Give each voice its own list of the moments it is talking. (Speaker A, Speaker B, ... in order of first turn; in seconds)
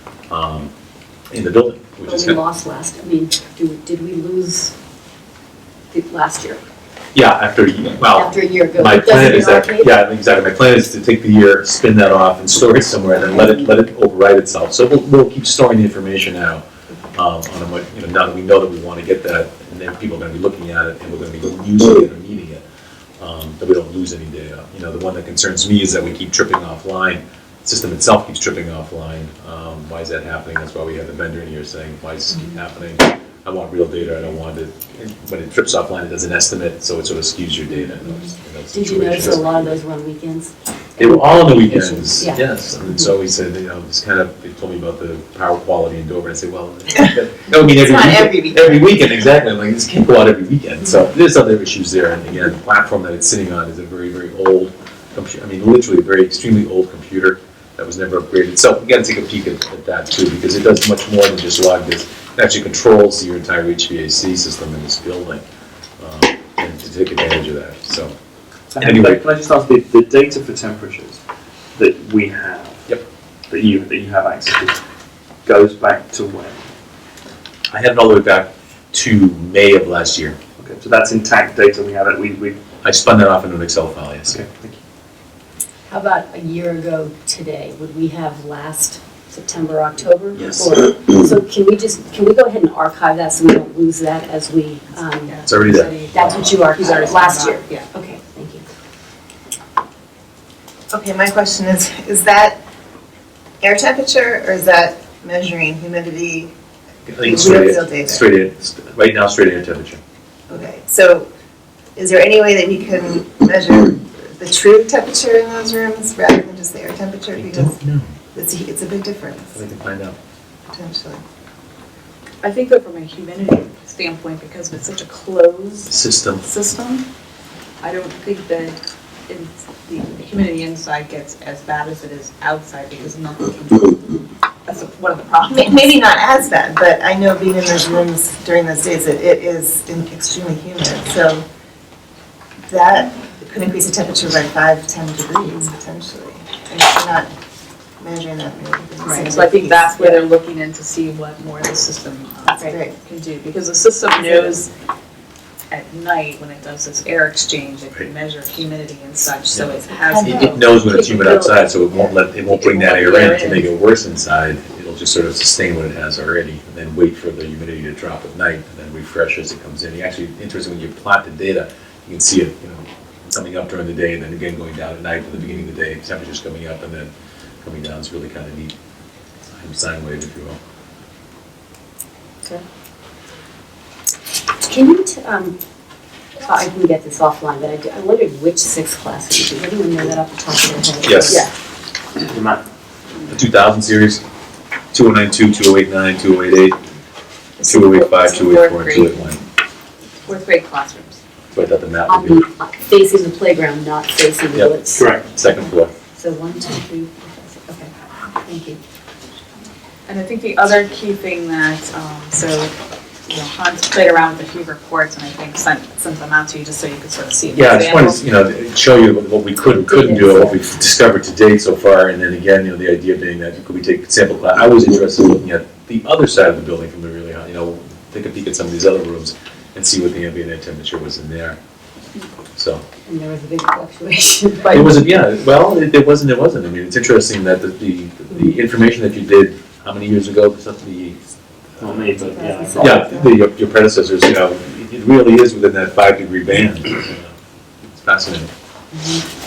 Speaker A: 0.3-0.7, 1.3-2.4, 7.1-22.6, 23.2-39.5, 41.0-65.4, 66.0-68.1, 68.8-69.2, 77.7-80.4, 82.8-84.4, 95.5-96.3, 107.1-110.0, 117.3-118.1, 119.5-120.2, 125.9-126.5, 159.5-177.1, 177.6-178.7, 179.5-180.6, 191.0-191.4, 193.3-194.2, 194.9-196.8, 197.6-199.4, 201.5-202.4, 204.5-205.9, 217.5-231.6, 232.6-232.8, 234.7-241.2, 241.8-242.1, 242.8-247.3, 247.9-248.5
Speaker B: 2.0-4.7, 5.9-6.6, 8.1-9.9, 13.1-13.7, 38.7-42.4, 85.9-95.4, 96.1-98.7, 154.2-154.5, 184.6-185.6, 186.4-191.5, 202.1-205.0, 206.2-208.8, 219.7-220.6, 233.1-235.0, 242.3-243.0, 248.9-249.2
Speaker C: 47.0-49.0, 100.9-102.6, 103.6-106.5, 107.2-108.2, 110.5-111.3, 112.0-117.8, 118.3-119.6, 120.7-121.2, 135.5-141.4, 142.7-147.3, 148.0-150.1, 152.5-152.9, 159.9-160.6
Speaker D: 68.7-71.2, 71.7-72.9, 73.5-74.8, 75.5-76.6, 80.6-82.6, 84.2-84.8, 192.2-192.6, 204.9-205.3, 241.8-243.1
Speaker E: 95.2-97.9, 122.4-127.1, 127.8-135.9, 149.0-154.7, 155.7-161.6, 162.5-163.7, 197.6-199.4, 200.2-201.2, 210.1-212.7, 213.3-218.2